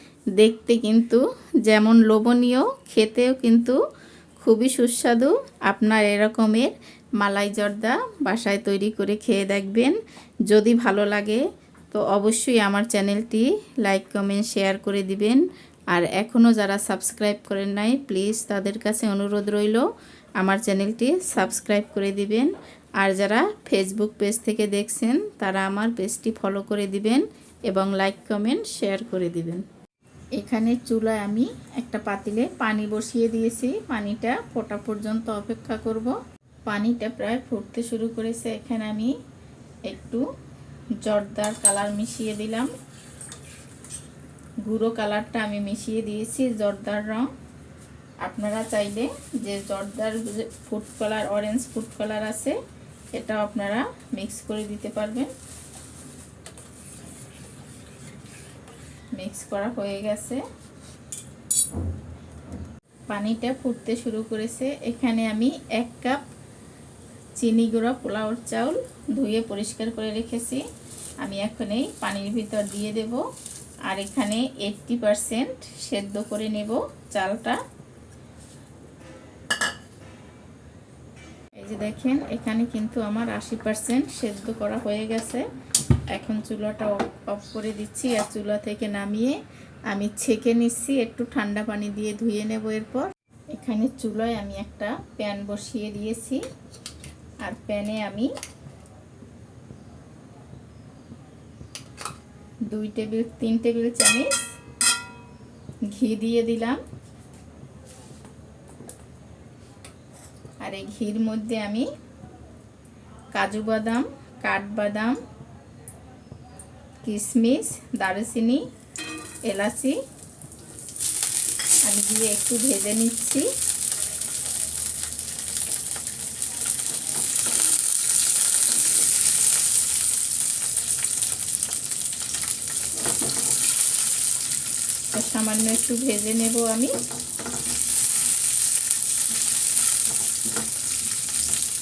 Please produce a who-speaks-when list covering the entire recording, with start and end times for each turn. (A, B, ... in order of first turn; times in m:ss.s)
0:00.4-0:03.8 A
0:04.4-0:19.9 A
0:20.4-0:29.6 A
0:30.4-0:36.2 A
0:36.7-0:39.1 A
0:39.8-0:40.2 A
0:41.0-0:42.7 A
0:44.6-0:47.3 A
0:48.2-0:52.6 A
0:53.1-0:55.3 A
0:59.2-1:00.4 A
1:03.1-1:06.2 A
1:07.4-1:10.6 A
1:11.2-1:13.2 A
1:13.8-1:17.6 A
1:21.6-1:25.4 A
1:26.1-1:36.4 A
1:37.4-1:38.3 A
1:42.7-1:44.5 A
1:45.9-1:46.8 A
1:50.6-1:51.9 A
1:53.3-1:55.2 A
1:57.0-1:58.6 A
1:59.4-2:00.0 A
2:01.8-2:03.5 A
2:15.1-2:16.9 A